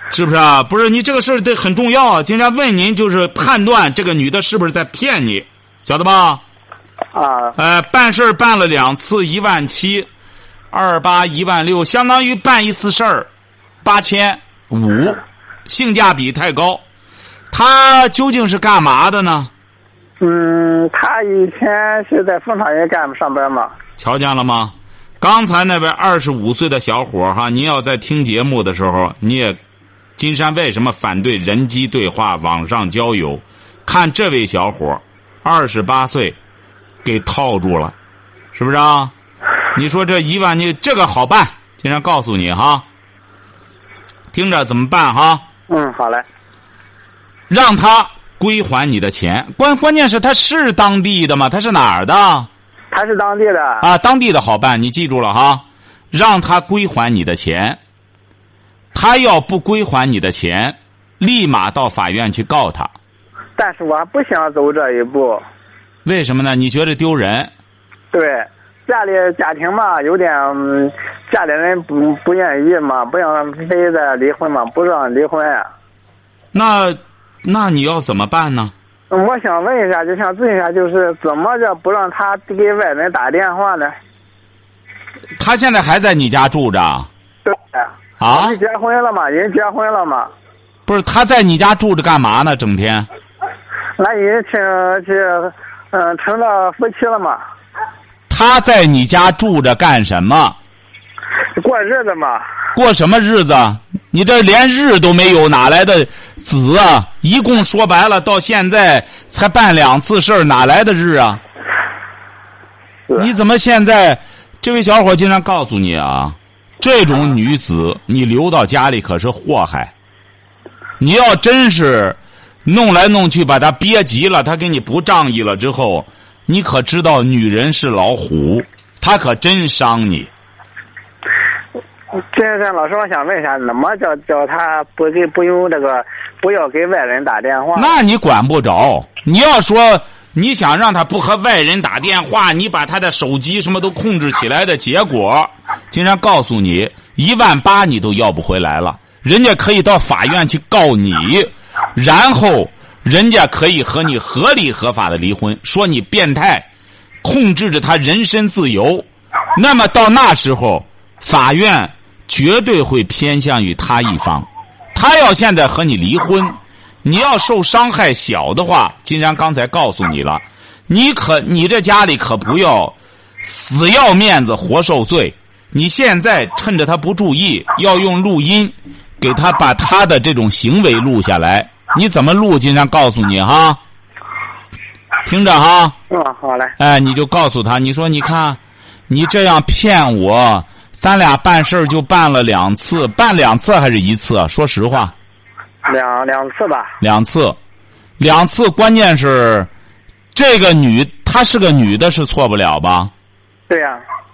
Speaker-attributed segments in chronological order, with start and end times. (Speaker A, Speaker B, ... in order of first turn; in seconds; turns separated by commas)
Speaker A: 0.1-6.4, Speaker B: 7.1-7.5, Speaker A: 7.5-10.1, Speaker A: 10.7-13.3, Speaker A: 13.8-16.8, Speaker A: 17.5-19.5, Speaker B: 20.2-23.7, Speaker A: 24.0-29.6, Speaker A: 30.2-36.4, Speaker A: 37.0-37.9, Speaker A: 38.5-39.1, Speaker A: 39.7-42.8, Speaker A: 44.3-45.4, Speaker B: 45.7-46.2, Speaker A: 47.5-52.5, Speaker B: 52.9-53.9, Speaker A: 53.8-57.8, Speaker A: 58.9-62.9, Speaker B: 63.6-65.4, Speaker A: 66.0-67.5, Speaker B: 68.1-75.7, Speaker A: 76.5-78.7, Speaker B: 79.1-83.9, Speaker A: 85.4-87.1, Speaker B: 87.4-90.3, Speaker A: 88.2-88.6, Speaker A: 90.9-93.1, Speaker B: 94.0-97.4, Speaker A: 98.3-100.5, Speaker B: 101.6-102.4, Speaker A: 102.7-111.4, Speaker A: 113.2-119.9, Speaker A: 121.0-130.3, Speaker B: 132.3-137.9, Speaker A: 137.7-156.7, Speaker A: 157.2-183.8, Speaker A: 185.2-185.9, Speaker B: 186.1-186.7, Speaker A: 186.8-195.1, Speaker B: 195.9-196.9, Speaker A: 197.0-197.6, Speaker A: 198.2-199.7, Speaker A: 200.3-203.1, Speaker B: 203.7-204.0